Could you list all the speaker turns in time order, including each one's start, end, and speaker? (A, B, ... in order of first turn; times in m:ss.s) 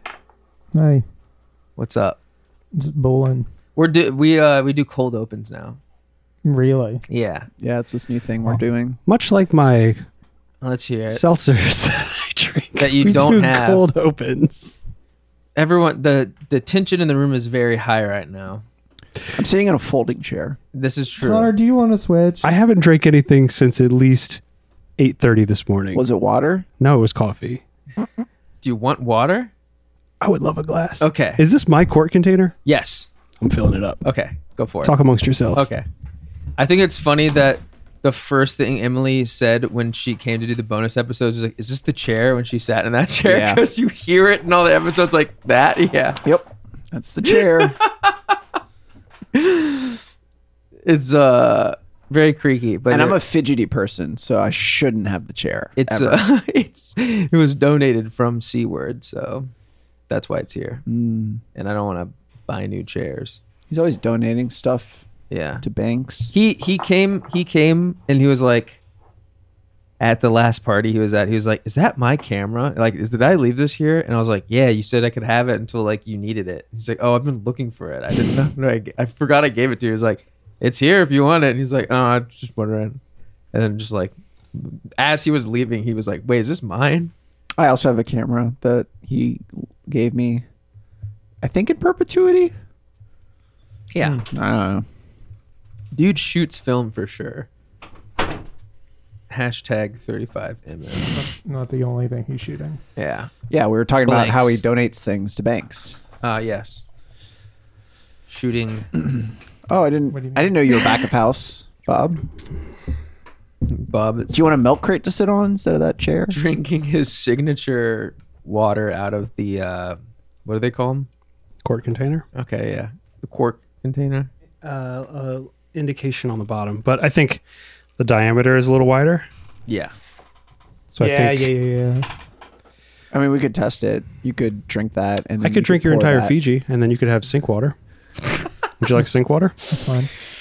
0:00.7-0:01.0 A
0:01.8-0:02.2 B
0:02.7-0:03.5 A
0:03.8-0:05.8 B
0:06.4-0:07.0 A
0:07.1-0:07.5 B
0:07.6-0:09.0 C
0:09.0-0:10.0 D
0:10.6-0:11.2 B
0:11.1-0:14.8 D
0:12.8-0:13.9 B
0:15.6-0:18.6 B
0:19.4-0:20.6 C
0:20.7-0:21.5 B
0:21.2-0:22.5 A
0:22.4-0:24.4 D
0:25.0-0:26.0 D
0:25.9-0:26.7 C
0:26.8-0:27.6 D
0:28.6-0:29.5 B
0:30.2-0:32.5 D
0:31.0-0:31.4 B
0:32.6-0:33.1 B
0:33.4-0:34.0 D
0:34.0-0:34.9 B
0:34.8-0:35.7 D
0:35.5-0:35.8 B
0:36.6-0:46.2 B
0:43.2-0:43.6 C
0:46.2-0:47.8 C
0:47.3-0:48.3 B
0:49.3-0:50.0 B
0:50.8-0:53.2 B
0:52.9-0:56.2 C
0:55.8-0:59.5 B
1:00.1-1:00.8 B
1:00.8-1:01.4 C
1:01.5-1:03.4 B
1:03.7-1:05.0 C
1:05.3-1:05.6 B
1:05.6-1:06.3 C
1:06.3-1:08.8 B
1:10.0-1:23.0 B
1:23.5-1:27.1 B
1:27.6-1:30.4 C
1:31.4-1:32.5 C
1:33.9-1:34.2 B
1:34.1-1:34.8 C
1:35.9-1:37.5 B
1:39.3-1:41.2 B
1:41.1-1:42.8 A
1:43.0-1:43.3 B
1:43.5-1:46.0 C
1:44.0-1:44.6 B
1:46.2-1:46.8 B
1:48.3-1:48.9 B
1:49.7-1:52.2 C
1:50.1-1:50.6 A
1:53.7-1:54.5 B
1:54.3-1:56.4 C
1:56.3-2:01.1 B
2:01.6-2:02.2 D
2:02.3-2:04.3 B
2:04.6-2:07.4 D
2:08.0-2:09.3 D
2:09.7-2:09.9 B
2:10.9-2:11.5 D
2:11.0-2:12.1 A
2:13.1-2:16.3 C
2:15.4-2:17.8 D
2:18.8-2:19.6 D
2:19.7-2:20.1 A